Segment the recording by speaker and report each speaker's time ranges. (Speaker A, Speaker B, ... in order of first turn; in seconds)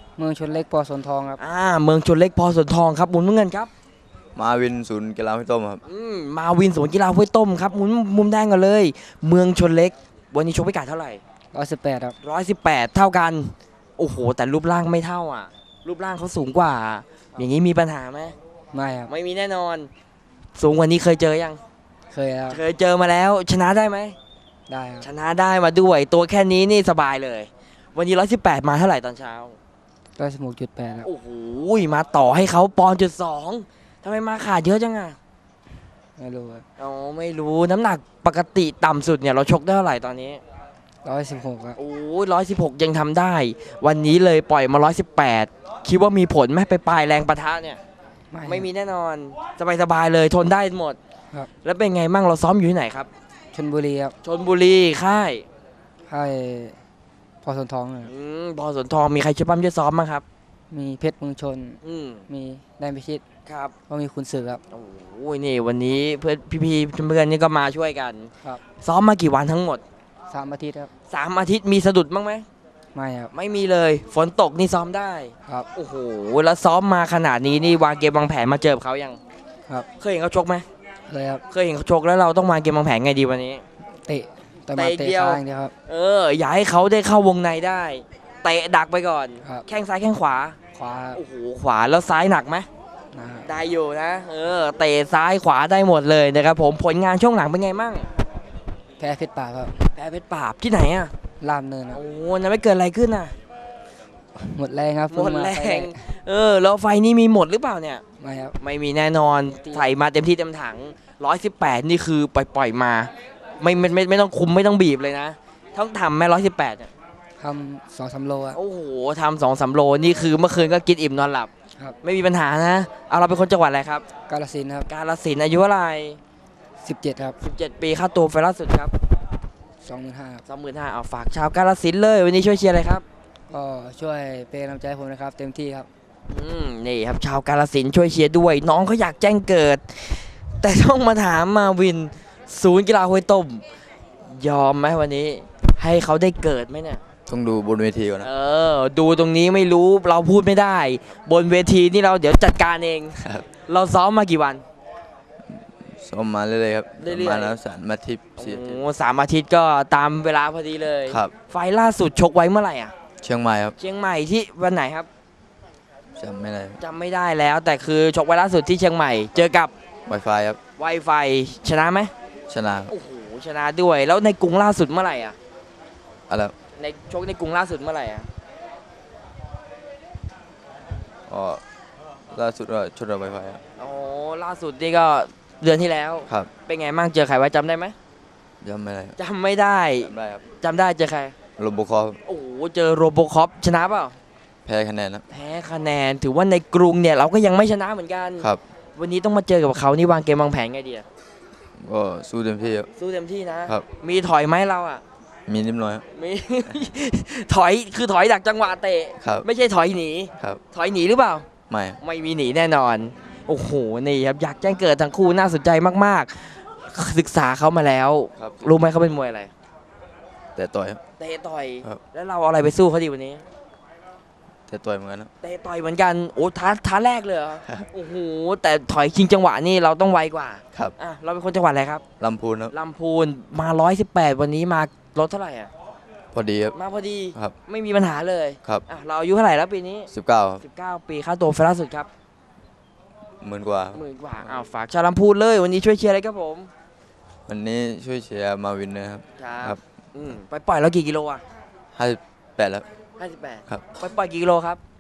Speaker A: 0.2-1.4, 11.5-12.2, 18.7-19.1, 22.1-22.6, 24.7-25.1, 30.2-31.1, 36.2-36.6, 41.0-41.8, 48.3-48.7, 53.5-54.1, 56.1-56.8, 57.4-58.1, 60.7-63.2, 63.9-64.6, 70.3-70.9, 73.0-73.3, 81.1-81.4, 84.1-85.7, 90.8-91.2, 93.1-93.5, 99.0-99.8, 101.4-102.0, 104.4-106.0, 108.2-108.6, 117.4-118.6, 124.3-124.9, 126.8-127.4, 129.8-130.4, 133.5-135.9
Speaker B: 1.4-3.7, 5.8-11.2, 12.2-18.4, 19.1-19.9, 20.6-21.6, 22.5-24.2, 25.0-29.6, 31.0-35.2, 36.8-40.4, 41.8-47.8, 48.5-51.0, 51.6-53.1, 54.2-55.5, 58.1-60.2, 61.8-62.2, 63.5-63.7, 64.7-69.8, 71.1-72.5, 73.3-79.2, 80.0-80.7, 81.5-83.6, 84.7-90.6, 91.1-92.7, 93.4-98.1, 100.0-101.1, 101.9-103.3, 105.1-108.0, 108.6-116.9, 118.5-121.5, 122.0-124.0, 124.9-126.2, 127.4-128.9, 130.5-133.0, 136.3-143.6, 144.2-147.0, 148.2-154.6, 157.0-157.6, 158.4-162.9, 163.8-165.1, 166.8-169.7, 170.8-172.1, 172.9-175.4, 176.8-178.3, 183.8-187.9, 189.2-191.3, 192.3-194.2, 195.3-201.1, 203.0-205.0, 206.1-211.5, 212.0-219.5, 221.2-223.4, 225.4-232.0, 232.7-235.7, 236.7-240.1, 240.6-242.1, 243.9-246.7, 249.4-251.4, 253.2-254.8
Speaker C: 4.4-5.8, 147.3-148.3, 155.5-158.8, 161.1-161.3, 163.2-163.8, 166.2-166.8, 170.1-170.6, 172.5-172.9, 176.3-176.5, 181.3-181.6, 182.3-183.6, 188.6-189.2, 190.1-190.4, 191.6-192.2, 194.7-195.2, 201.8-202.9, 205.5-206.0, 211.7-212.0, 220.6-221.0, 224.7-225.3, 232.2-232.7, 236.3-236.8, 240.1-240.6, 243.4-244.0, 247.5-249.8, 252.0-252.9